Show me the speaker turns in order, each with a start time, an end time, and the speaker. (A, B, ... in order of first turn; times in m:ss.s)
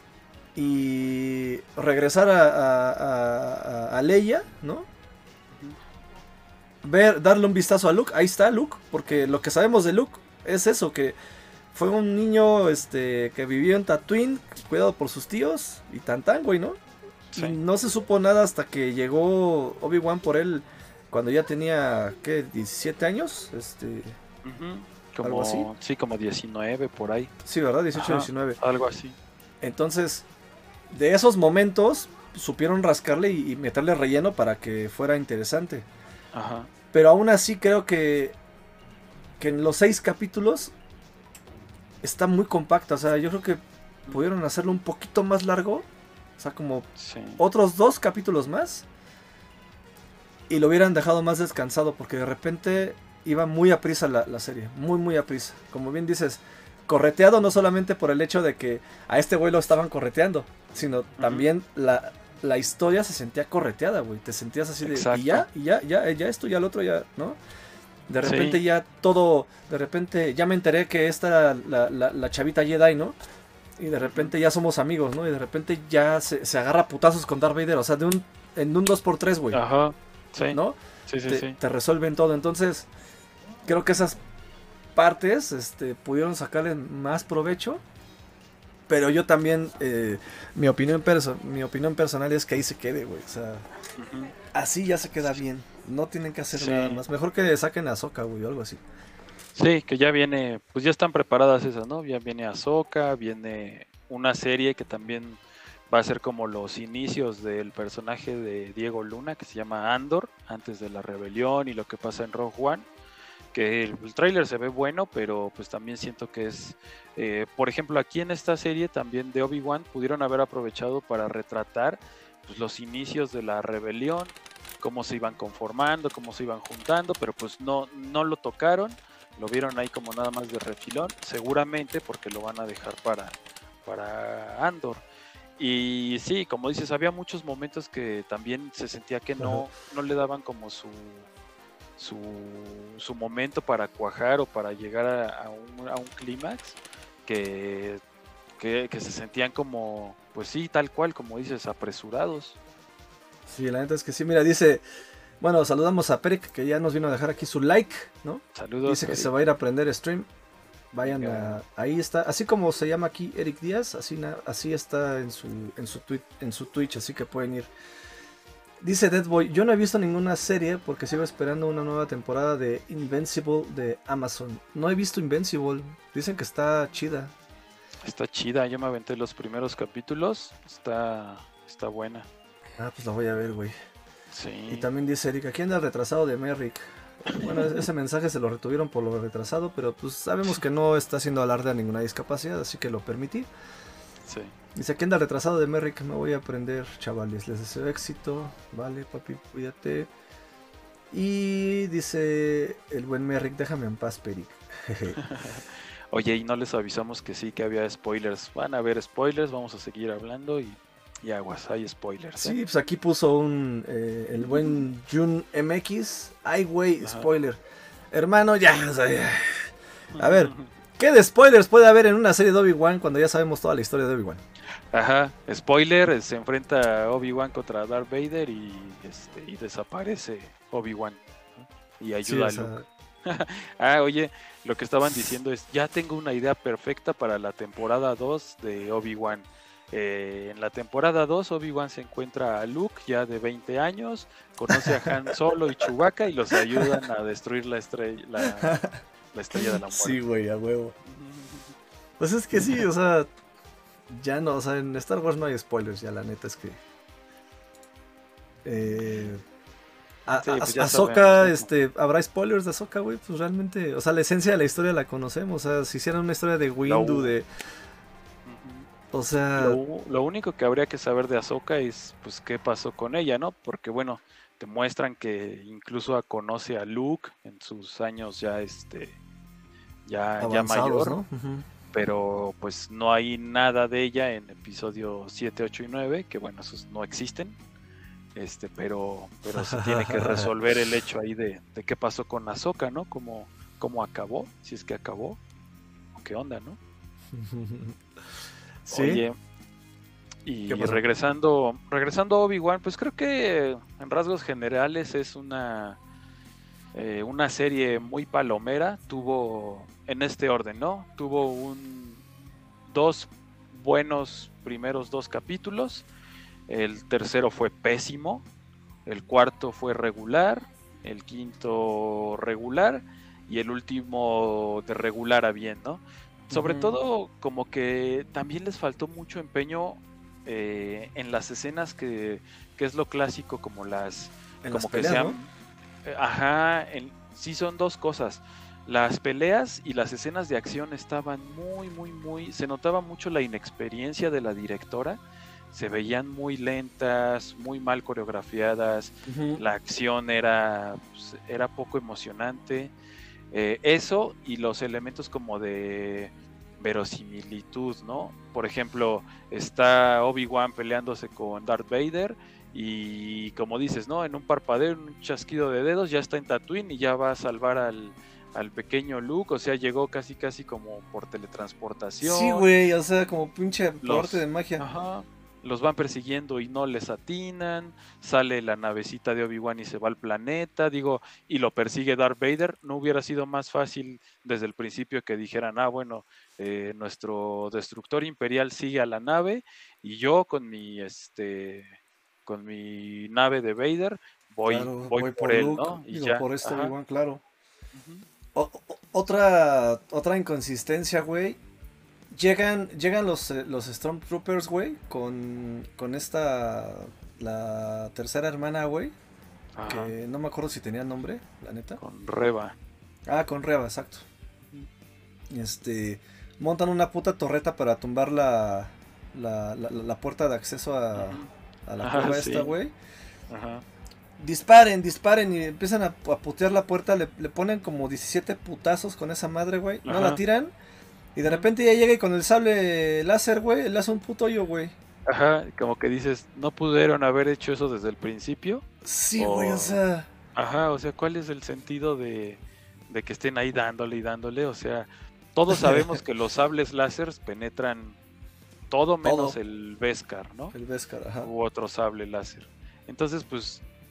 0:00.5-0:04.9 A
0:05.5-0:05.8 B
0:06.8-0:11.2 A
0:11.7-0:16.8 A
0:17.3-0:24.2 A
0:17.3-0:17.6 B
0:24.4-0:27.3 B
0:25.2-0:25.7 A
0:27.4-0:28.6 A
0:27.9-0:29.2 B
0:29.6-0:30.3 A
0:30.9-0:35.9 A
0:36.3-0:36.7 B
0:36.9-0:38.4 A
0:39.4-0:40.7 A
0:42.0-0:45.9 A
0:46.4-0:46.9 A
0:47.0-0:47.4 B
0:47.4-0:48.8 A
0:50.5-1:07.4 A
1:01.2-1:01.5 B
1:04.8-1:05.5 B
1:08.1-1:13.2 A
1:08.2-1:08.6 B
1:13.8-1:19.6 A
1:14.0-1:14.3 B
1:19.5-1:21.6 B
1:20.5-1:22.9 A
1:23.6-1:24.2 A
1:25.0-1:27.8 A
1:28.9-1:33.6 A
1:34.0-1:34.3 B
1:34.5-1:38.8 A
1:36.5-1:37.0 B
1:39.5-1:52.9 B
1:53.5-2:15.0 B
2:15.6-2:21.3 B
2:19.4-2:19.6 A
2:22.0-2:28.0 B
2:28.6-2:32.6 B
2:33.5-2:34.8 A
2:35.4-2:40.3 A
2:38.5-2:39.4 B
2:40.9-2:47.7 A
2:41.0-2:41.6 B
2:48.8-2:57.3 A
2:58.0-3:02.3 B
3:02.8-3:03.7 A
3:04.3-3:04.9 B
3:04.7-3:13.5 A
3:07.3-3:07.8 B
3:14.2-3:14.5 B
3:14.7-3:20.1 A
3:21.1-3:25.2 A
3:25.2-3:32.6 B
3:32.4-3:37.6 A
3:34.4-3:34.9 B
3:37.0-3:37.3 B
3:38.1-3:44.4 A
3:40.1-3:40.7 B
3:44.9-3:51.2 B
3:52.0-4:08.8 B
3:52.2-3:52.8 A
4:04.7-4:05.3 A
4:06.6-4:07.0 A
4:08.4-4:09.0 A
4:09.3-4:10.2 B
4:09.5-4:11.0 A
4:11.0-4:11.7 B
4:12.2-4:13.3 A
4:12.6-4:12.9 B
4:14.1-4:16.8 A
4:18.6-4:19.4 A
4:20.3-4:27.5 A
4:20.4-4:21.7 B
4:26.8-4:27.4 B
4:28.4-4:28.9 B
4:29.1-4:29.8 A
4:29.6-4:39.2 B
4:40.0-4:41.2 B
4:40.4-4:41.6 A
4:41.9-4:47.6 B
4:48.3-4:55.4 B
4:49.5-4:50.5 A
4:56.1-4:56.8 B
4:57.3-4:58.0 A
4:58.8-4:59.2 A
4:58.9-4:59.3 B
5:00.4-5:06.0 B
5:00.7-5:01.0 A
5:06.9-5:12.2 B
5:12.9-5:16.0 B
5:16.7-5:18.4 B
5:19.0-5:35.5 B
5:26.5-5:27.0 A
5:34.6-5:35.4 A
5:36.0-5:45.2 B
5:45.7-5:52.9 B
5:49.2-5:49.6 A
5:53.5-6:12.6 B
6:12.2-6:14.8 A
6:14.0-6:31.9 B
6:32.4-6:36.9 B
6:34.7-6:37.4 A
6:37.9-6:38.2 B
6:38.5-6:41.6 A
6:42.3-6:49.1 A
6:49.7-6:50.1 B
6:49.8-6:52.0 A
6:52.0-6:52.8 B
6:53.3-6:54.2 A
6:55.5-7:02.9 A
7:01.1-7:01.5 B
7:02.0-7:02.7 B
7:03.5-7:03.8 B
7:04.4-7:10.7 A
7:10.0-7:10.4 B
7:11.3-7:14.9 A
7:15.2-7:18.8 B
7:19.0-7:20.3 A
7:19.4-7:20.0 B
7:20.5-7:28.2 B
7:25.7-7:26.1 A
7:28.9-7:30.7 B
7:29.2-7:29.6 A
7:30.7-7:31.5 A
7:31.4-7:33.8 B